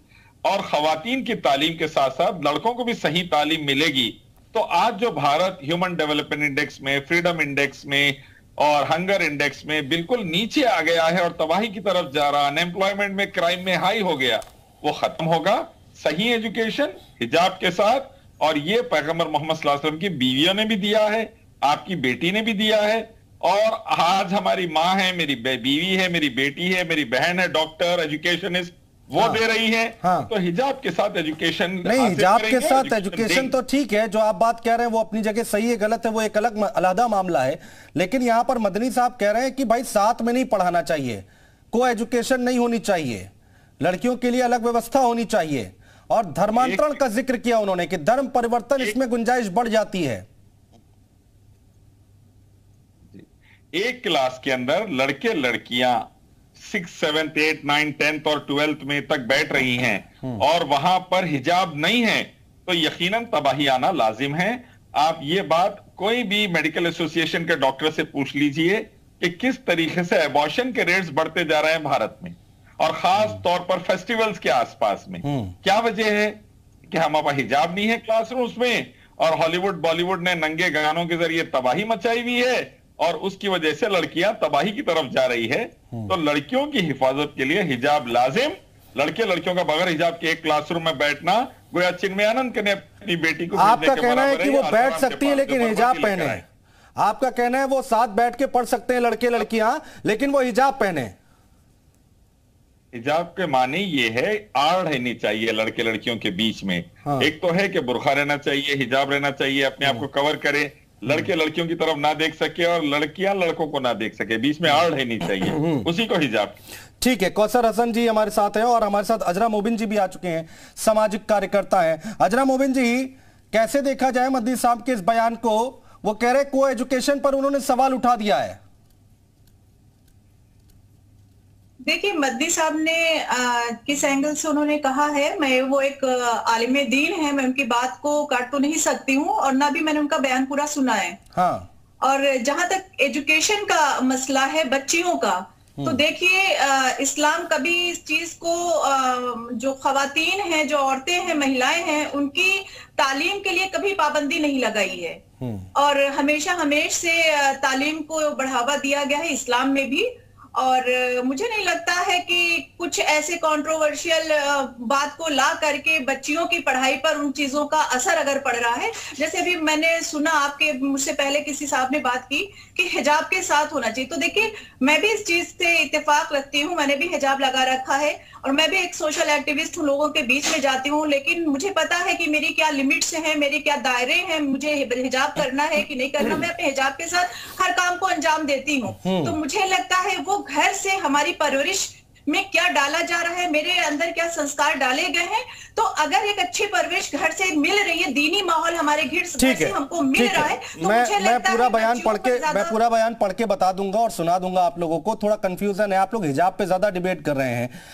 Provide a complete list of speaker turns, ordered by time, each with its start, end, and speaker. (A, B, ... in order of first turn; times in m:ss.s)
0:00.4-0:33.6 A
0:29.1-0:29.4 B
0:30.0-0:30.3 B
0:31.8-0:43.3 B
0:43.8-0:50.2 B
0:46.5-0:47.0 A
0:53.1-0:56.0 A
0:56.6-1:36.4 A
1:15.2-1:15.5 B
1:33.5-1:36.5 B
1:37.0-1:41.1 B
1:42.9-1:56.6 A
1:47.0-1:47.3 B
1:55.5-1:55.9 B
1:57.0-2:08.6 B
2:11.8-2:21.2 C
2:21.3-2:21.7 B
2:22.0-2:35.2 C
2:25.8-2:26.0 B
2:35.4-2:35.7 B
2:35.8-3:22.8 C
3:09.0-3:09.4 B
3:19.4-3:27.7 B